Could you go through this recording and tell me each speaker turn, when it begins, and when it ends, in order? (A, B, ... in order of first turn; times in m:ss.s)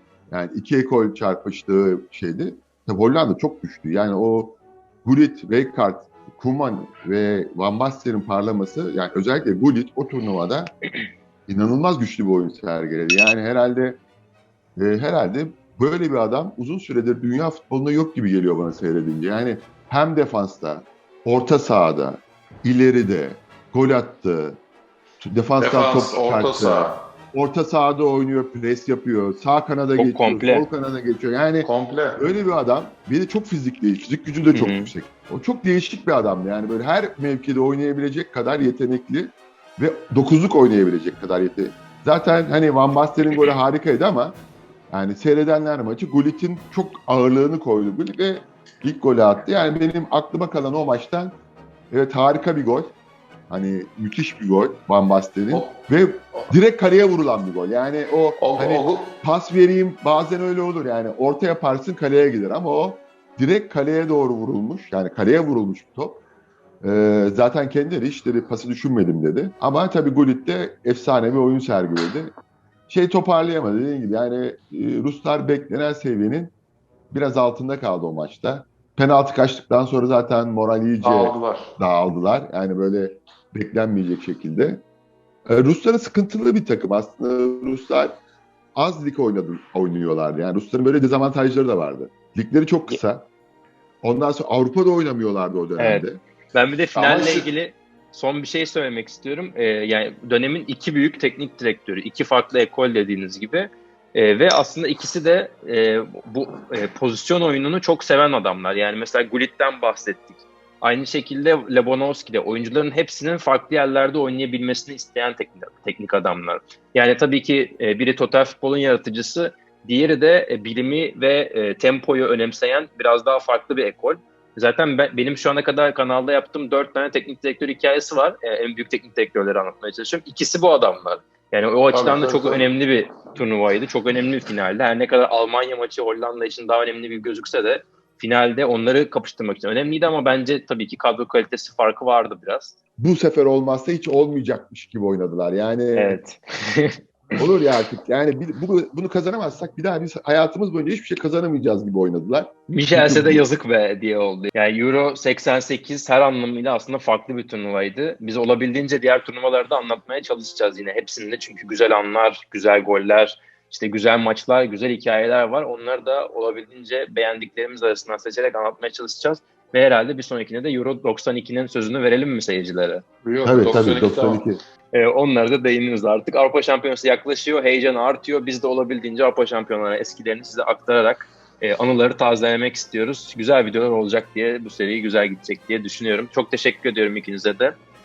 0:00.3-0:10.7 A
0:11.5-0:14.0 A
0:14.8-0:24.6 A
0:25.2-0:44.4 A
0:25.6-0:27.0 B
0:30.0-0:30.7 C
0:31.6-0:32.2 B
0:34.5-0:34.9 C
0:44.9-0:51.4 A
0:51.9-0:52.9 A
0:53.5-1:06.2 A
0:55.5-0:55.8 B
0:58.4-0:59.1 B
1:06.8-1:12.3 A
1:12.9-1:16.5 A
1:17.1-1:24.8 A
1:21.0-1:21.7 B
1:25.5-1:28.2 A
1:28.8-1:33.3 A
1:34.0-1:36.2 A
1:35.8-2:22.8 C
1:37.0-1:37.5 B
2:11.9-2:12.7 B
2:23.0-2:26.2 A
2:25.9-2:27.0 C
2:27.4-2:33.5 A
2:32.7-2:53.0 C
2:53.2-2:54.4 B
2:53.4-2:54.6 A
2:54.9-3:07.7 C